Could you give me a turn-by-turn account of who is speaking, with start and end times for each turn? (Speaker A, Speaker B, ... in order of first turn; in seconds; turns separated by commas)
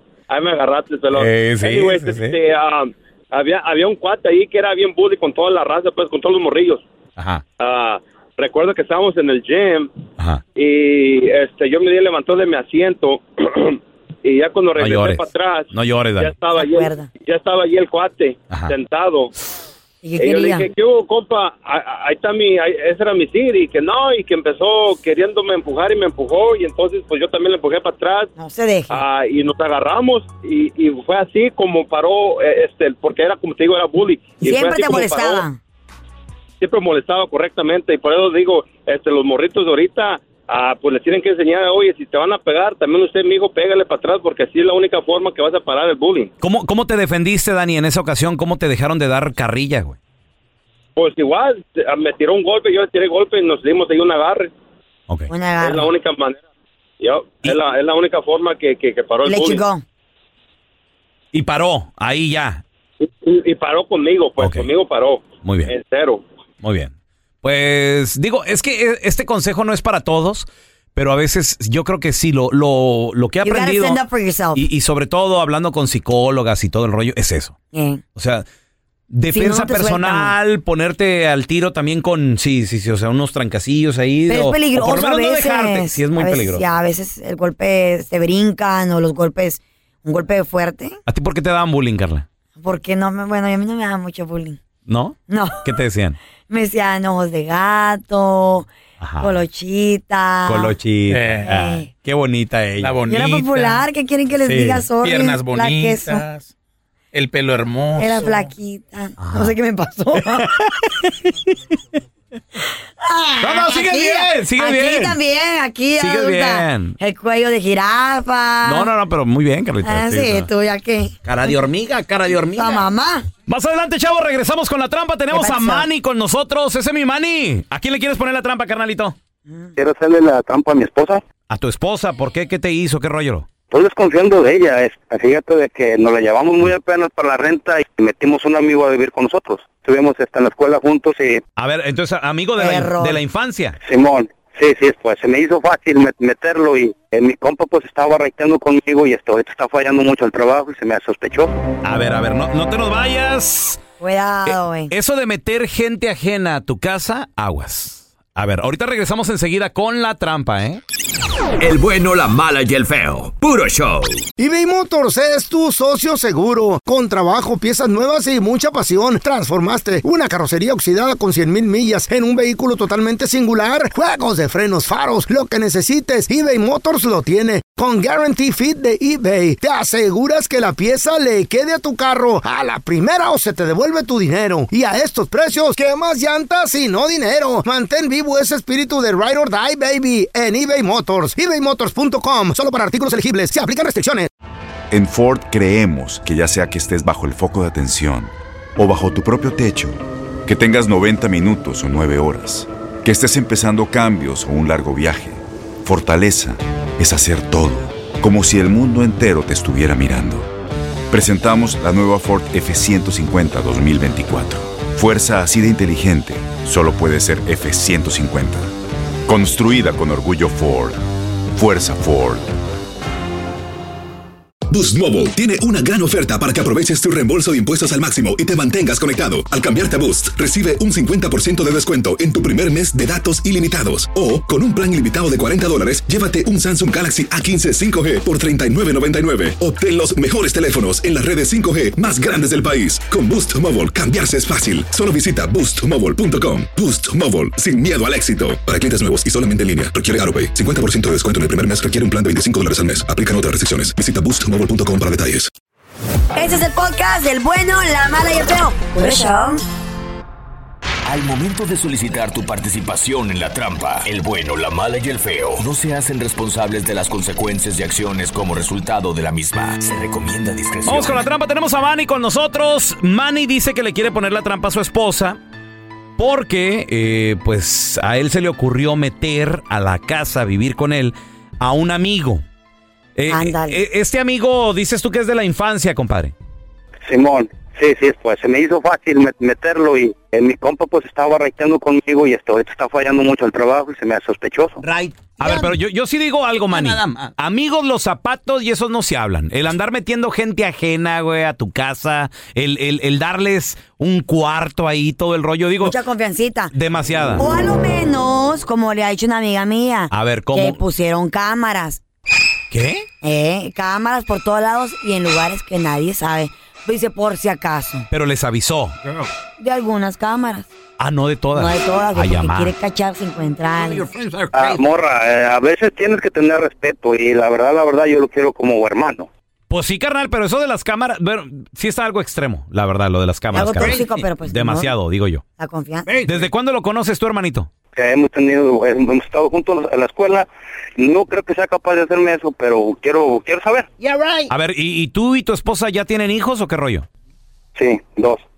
Speaker A: 0.3-6.8, Speaker B: 1.1-2.4, Speaker B: 7.2-7.4, Speaker A: 7.6-9.9, Speaker A: 10.6-19.3, Speaker B: 14.8-16.3, Speaker C: 16.6-17.1, Speaker C: 20.0-20.7, Speaker A: 20.2-28.3, Speaker C: 28.4-29.0, Speaker A: 28.9-35.4, Speaker C: 34.4-35.6, Speaker A: 36.6-46.3, Speaker B: 46.4-50.0, Speaker A: 51.0-54.5, Speaker C: 55.3-55.9, Speaker A: 55.6-56.4, Speaker A: 57.0-59.6, Speaker C: 59.2-59.8, Speaker B: 61.3-62.6, Speaker A: 63.0-66.2, Speaker B: 64.4-64.7, Speaker B: 65.4-65.7, Speaker B: 66.6-74.0, Speaker C: 73.4-74.6, Speaker B: 74.5-77.5, Speaker C: 77.7-78.0, Speaker B: 78.2-78.4, Speaker B: 79.1-86.6, Speaker C: 79.3-80.3, Speaker C: 84.3-91.0, Speaker B: 91.1-92.2, Speaker C: 92.6-94.6, Speaker B: 94.9-96.2, Speaker C: 95.3-95.6, Speaker C: 96.5-98.7, Speaker B: 99.0-99.3, Speaker C: 99.2-100.7, Speaker B: 100.5-103.0, Speaker D: 101.1-101.5, Speaker C: 101.4-101.9, Speaker D: 102.8-103.8, Speaker C: 103.0-106.2, Speaker D: 104.5-106.5, Speaker D: 107.1-108.5, Speaker C: 108.0-110.5, Speaker B: 109.2-109.5, Speaker B: 110.3-110.7, Speaker C: 113.0-118.9, Speaker B: 113.4-115.2, Speaker B: 116.0-117.0, Speaker B: 118.6-120.5, Speaker C: 119.8-121.2, Speaker B: 121.2-122.8, Speaker C: 122.5-123.3, Speaker B: 123.5-129.1, Speaker C: 125.3-125.8, Speaker C: 129.5-129.7, Speaker E: 129.8-131.2, Speaker B: 131.5-133.4, Speaker E: 133.7-141.4, Speaker B: 141.6-143.8, Speaker C: 142.6-143.2, Speaker E: 143.8-151.5, Speaker B: 151.8-153.8, Speaker C: 154.0-154.9, Speaker B: 154.9-160.8, Speaker F: 161.6-164.2, Speaker G: 164.4-194.3, Speaker H: 194.9-210.5, Speaker H: 211.1-218.7, Speaker H: 219.2-221.0, Speaker H: 221.5-222.5, Speaker I: 224.7-255.5, Speaker C: 256.3-259.6, Speaker F: 261.0-271.2, Speaker B: 270.8-275.4, Speaker B: 276.2-282.4, Speaker B: 283.1-286.3, Speaker C: 283.3-283.8, Speaker E: 287.1-294.8, Speaker B: 294.8-305.9, Speaker C: 305.8-306.7, Speaker B: 306.7-307.4, Speaker C: 307.4-312.0, Speaker B: 310.1-310.8, Speaker B: 312.7-313.1, Speaker C: 313.2-318.1, Speaker B: 318.1-319.0, Speaker C: 319.6-320.7, Speaker B: 321.0-322.7, Speaker C: 321.5-324.1, Speaker B: 323.8-324.8, Speaker E: 324.5-329.3, Speaker B: 329.7-335.4, Speaker C: 333.5-334.9, Speaker C: 335.6-336.1, Speaker B: 336.2-337.7, Speaker E: 337.9-343.9, Speaker B: 344.0-347.1, Speaker F: 344.1-344.4, Speaker E: 347.8-348.4